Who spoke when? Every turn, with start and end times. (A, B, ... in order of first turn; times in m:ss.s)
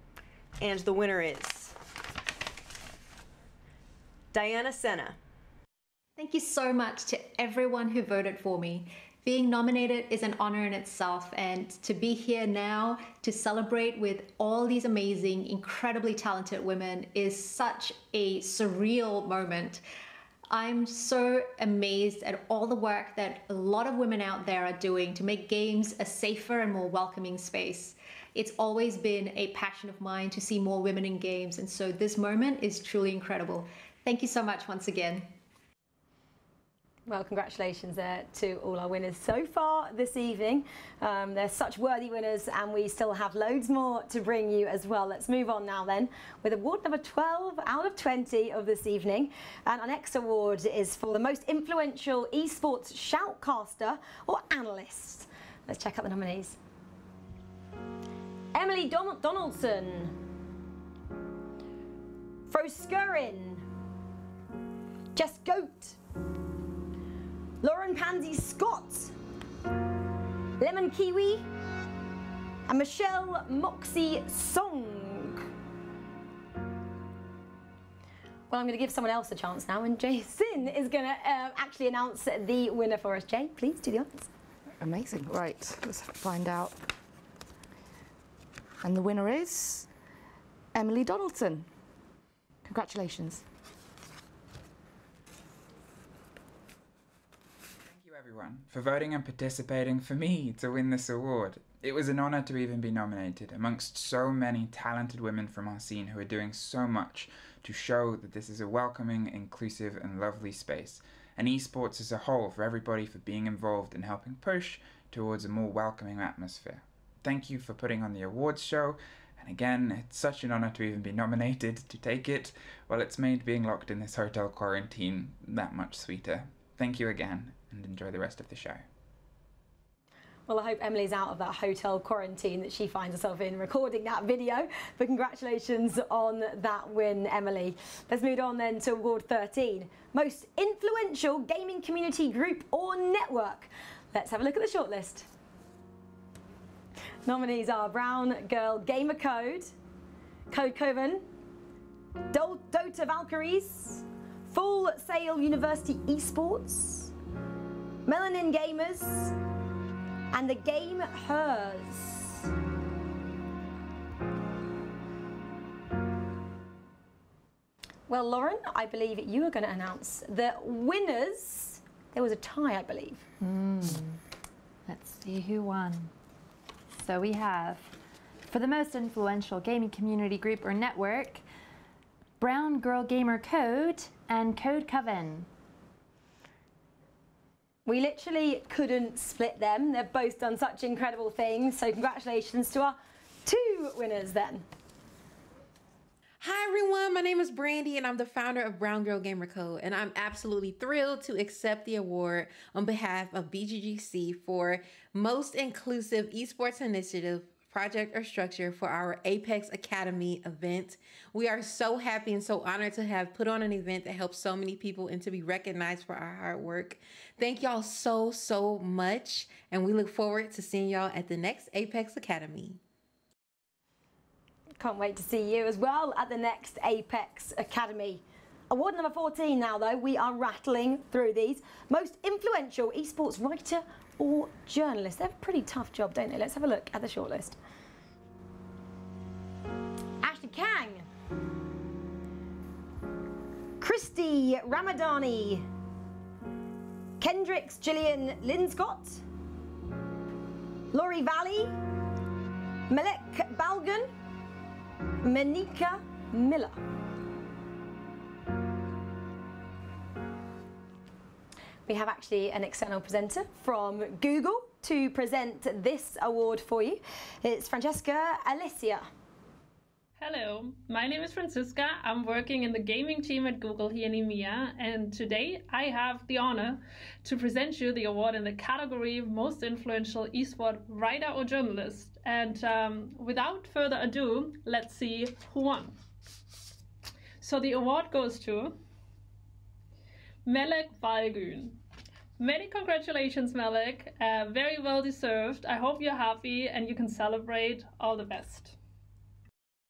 0:00.6-0:01.8 A
0:04.3-0:05.2 A
0:06.2-0:19.8 B
0:20.5-0:35.3 B
0:37.1-0:56.6 C
0:58.5-1:00.2 C
1:02.5-1:03.6 C
1:05.2-1:06.0 C
1:07.6-1:09.1 C
1:10.6-1:11.5 C
1:12.7-1:15.4 C
1:18.5-1:24.3 C
1:24.8-1:26.8 D
1:28.8-1:29.9 D
1:30.7-1:31.7 D
1:32.7-1:33.4 D
1:37.8-2:08.8 E
2:10.5-2:25.3 C
2:27.2-2:29.7 C
2:30.5-2:31.2 C
2:32.3-2:37.1 C
2:38.1-2:39.3 C
2:40.3-2:42.5 C
2:48.1-2:53.2 C
2:53.4-2:54.2 F
2:54.9-2:56.1 F
2:57.0-3:01.4 F
3:02.4-3:05.5 F
3:07.9-3:14.6 C
3:16.4-3:42.8 G
3:44.8-3:57.6 C
4:00.2-4:01.1 C
4:03.8-4:05.7 C
4:07.2-4:09.2 C
4:10.9-4:11.8 C
4:12.9-4:14.1 C
4:15.2-4:16.8 C
4:21.9-4:29.1 C
4:30.2-4:46.0 H
4:47.4-4:48.8 H
4:50.4-4:51.8 H
4:52.4-4:58.8 H